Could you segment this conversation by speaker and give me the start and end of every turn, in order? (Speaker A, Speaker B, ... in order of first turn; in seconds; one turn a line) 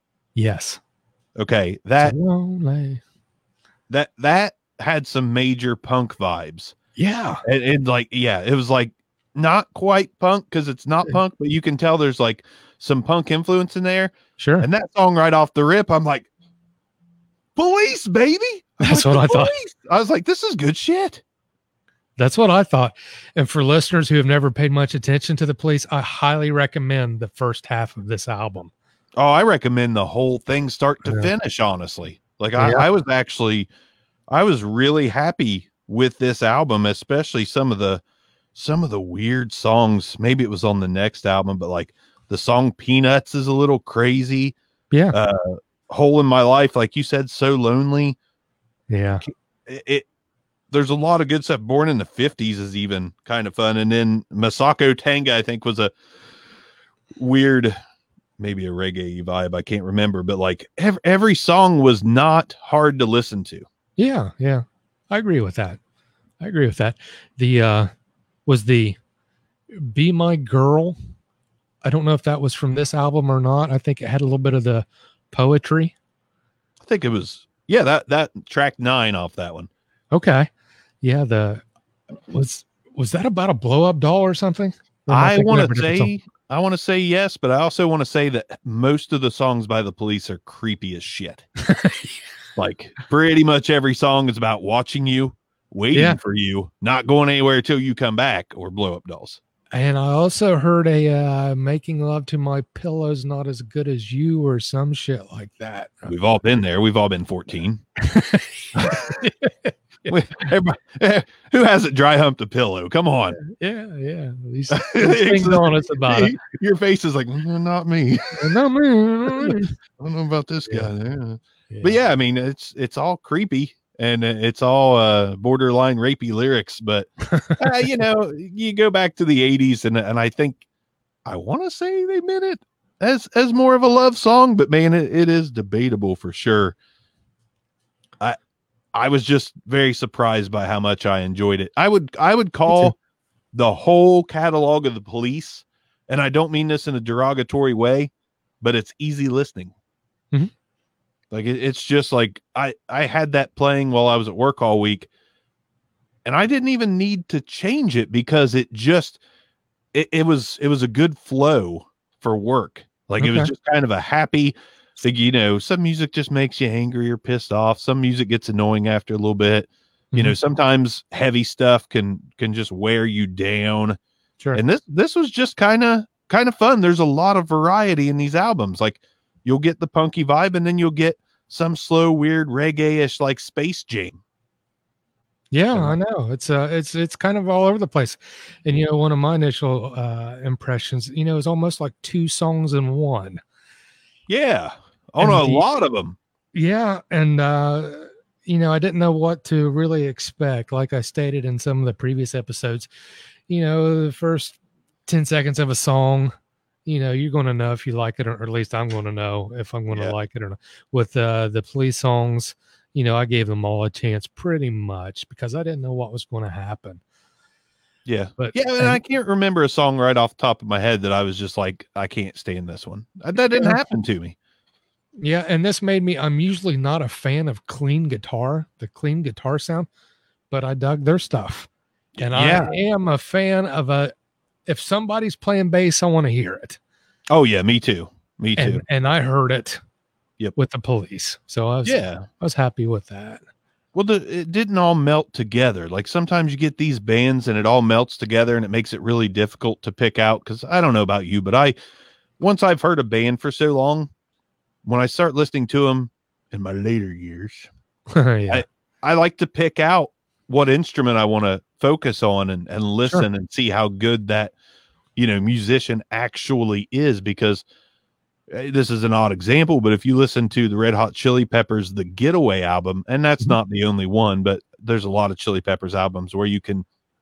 Speaker A: 0.3-0.8
Speaker B: 1.4-2.2
Speaker A: 2.0-3.0
Speaker B: 3.9-6.8
Speaker A: 7.0-7.4
Speaker B: 7.5-16.3
Speaker A: 14.4-14.7
Speaker B: 17.6-21.2
Speaker A: 18.8-19.5
Speaker A: 22.2-28.7
Speaker B: 29.2-33.7
Speaker A: 32.6-32.9
Speaker B: 34.3-38.0
Speaker B: 38.5-44.6
Speaker A: 44.9-45.2
Speaker B: 45.1-48.2
Speaker A: 48.9-49.2
Speaker B: 49.2-50.1
Speaker B: 50.7-55.9
Speaker B: 57.2-57.8
Speaker B: 58.4-63.7
Speaker A: 64.0-65.8
Speaker A: 66.4-67.9
Speaker A: 68.5-69.0
Speaker A: 69.7-71.0
Speaker A: 71.8-75.9
Speaker B: 76.8-79.7
Speaker A: 80.1-80.5
Speaker A: 81.0-81.6
Speaker A: 82.3-86.1
Speaker B: 85.1-91.5
Speaker A: 91.6-92.2
Speaker B: 92.6-99.4
Speaker A: 95.9-96.2
Speaker A: 99.7-106.1
Speaker B: 106.1-107.8
Speaker A: 108.0-110.1
Speaker B: 108.8-109.2
Speaker B: 110.1-113.4
Speaker A: 113.4-116.4
Speaker B: 114.7-118.5
Speaker A: 118.4-119.7
Speaker B: 119.3-130.6
Speaker A: 121.7-122.0
Speaker A: 127.2-127.6
Speaker B: 131.2-136.8
Speaker B: 138.9-143.0
Speaker A: 142.7-142.9
Speaker B: 143.5-149.7
Speaker B: 151.3-155.1
Speaker B: 156.2-159.2
Speaker B: 159.9-174.0
Speaker A: 163.2-163.5
Speaker B: 174.5-184.2
Speaker A: 185.5-193.4
Speaker B: 194.3-196.2
Speaker A: 195.2-195.7
Speaker A: 196.5-202.9
Speaker A: 203.5-206.3
Speaker A: 206.9-217.0
Speaker B: 218.1-224.3
Speaker A: 218.4-219.0
Speaker A: 223.5-223.8
Speaker A: 225.2-229.9
Speaker A: 230.5-234.1
Speaker B: 232.2-232.7
Speaker A: 234.7-236.8
Speaker B: 237.3-238.8
Speaker A: 238.6-239.8
Speaker A: 240.6-243.4
Speaker B: 241.8-242.3
Speaker B: 243.9-251.8
Speaker B: 252.4-254.1
Speaker B: 254.8-257.7
Speaker A: 258.1-258.6
Speaker B: 258.5-264.5
Speaker B: 265.2-267.6
Speaker B: 268.5-276.9